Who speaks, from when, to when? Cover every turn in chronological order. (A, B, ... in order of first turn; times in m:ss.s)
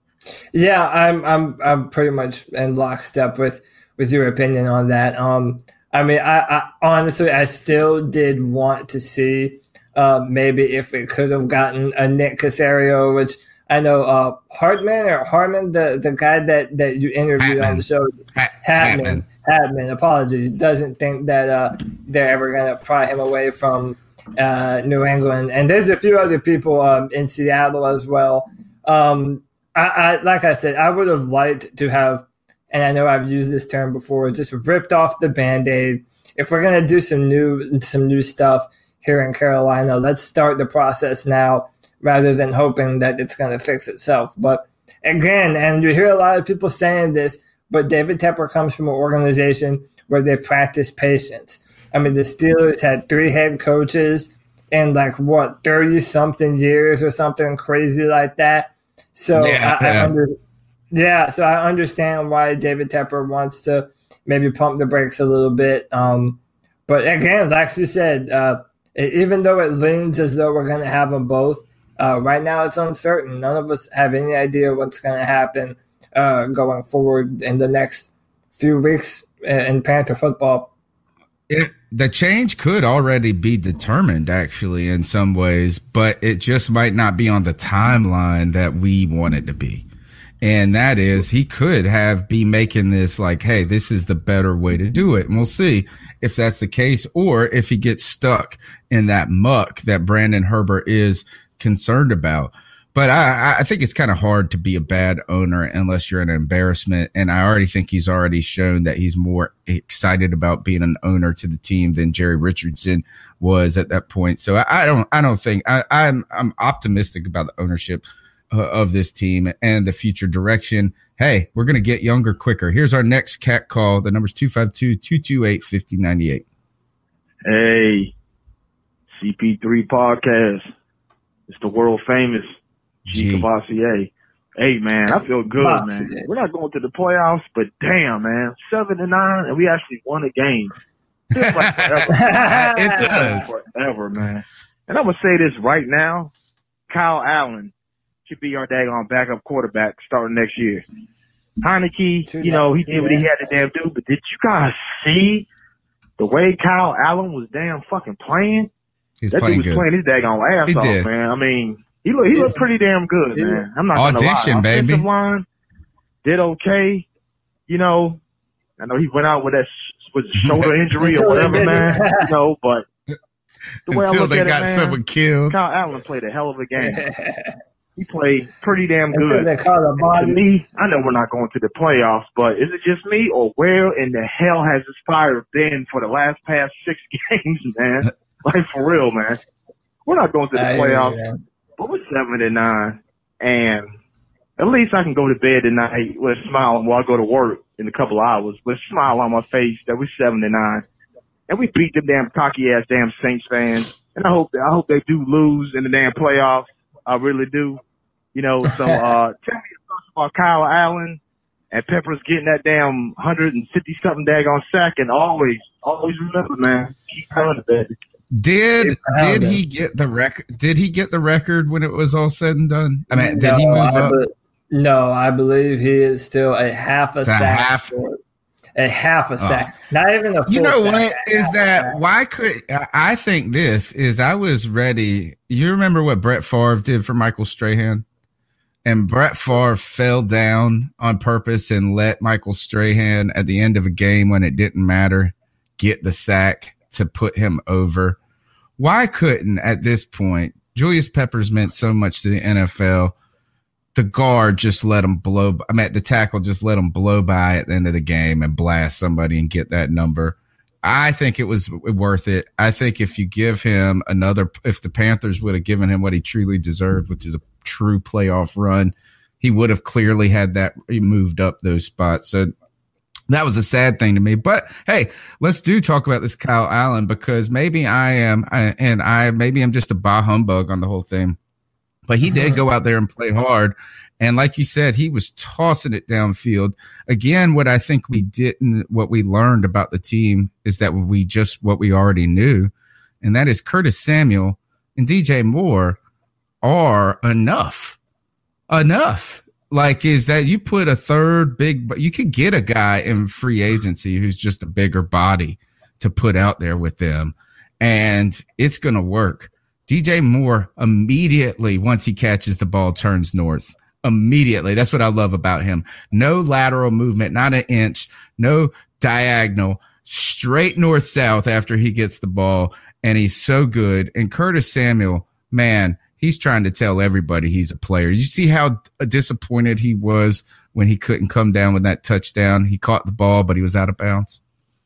0:00.5-1:00.3 A
0:17.4-0:17.8 B
0:18.3-0:19.2 B
0:59.3-1:00.1 B
1:00.9-1:20.7 A
1:21.5-1:29.8 B
1:30.4-2:06.4 B
2:07.4-2:08.1 C
2:09.1-2:10.7 C
2:11.5-2:12.5 C
2:13.0-2:13.5 B
2:13.1-2:20.7 C
2:15.6-2:16.3 A
2:21.3-2:26.3 C
2:21.4-2:23.5 B
2:22.1-2:23.5 A
2:26.9-2:27.7 C
2:28.3-2:30.8 C
2:31.6-2:35.5 C
2:32.2-2:33.2 A
2:36.2-2:38.7 C
2:39.2-2:39.8 B
2:39.3-2:45.4 C
2:40.6-2:41.1 B
2:42.3-2:42.6 A
2:43.3-2:43.6 A
2:43.9-2:45.0 B
2:46.2-2:47.0 C
2:47.7-2:48.2 C
2:48.8-2:52.8 C
2:50.4-2:50.7 B
2:51.0-2:52.2 A
2:53.9-2:55.0 C
2:53.9-2:55.6 B
2:55.5-2:57.0 C
2:56.8-2:57.6 A
2:58.0-3:09.4 C
2:59.1-3:00.4 A
3:10.0-3:11.2 C
3:10.5-3:11.4 A
3:11.8-3:14.0 C
3:14.6-3:20.8 C
3:21.5-3:27.8 C
3:28.3-3:31.2 C
3:31.7-3:37.9 C
3:38.3-3:44.1 B
3:38.8-3:39.6 A
3:43.1-3:48.2 A
3:47.2-3:47.9 B
3:48.8-3:52.0 A
3:50.5-3:58.0 B
3:58.8-4:08.2 B
4:08.8-4:13.1 B
4:13.9-4:32.5 B
4:33.3-4:41.4 B
4:42.1-4:52.7 B
4:42.2-4:42.6 A
4:53.2-4:56.0 B
4:56.6-4:58.0 B
4:58.7-5:34.4 B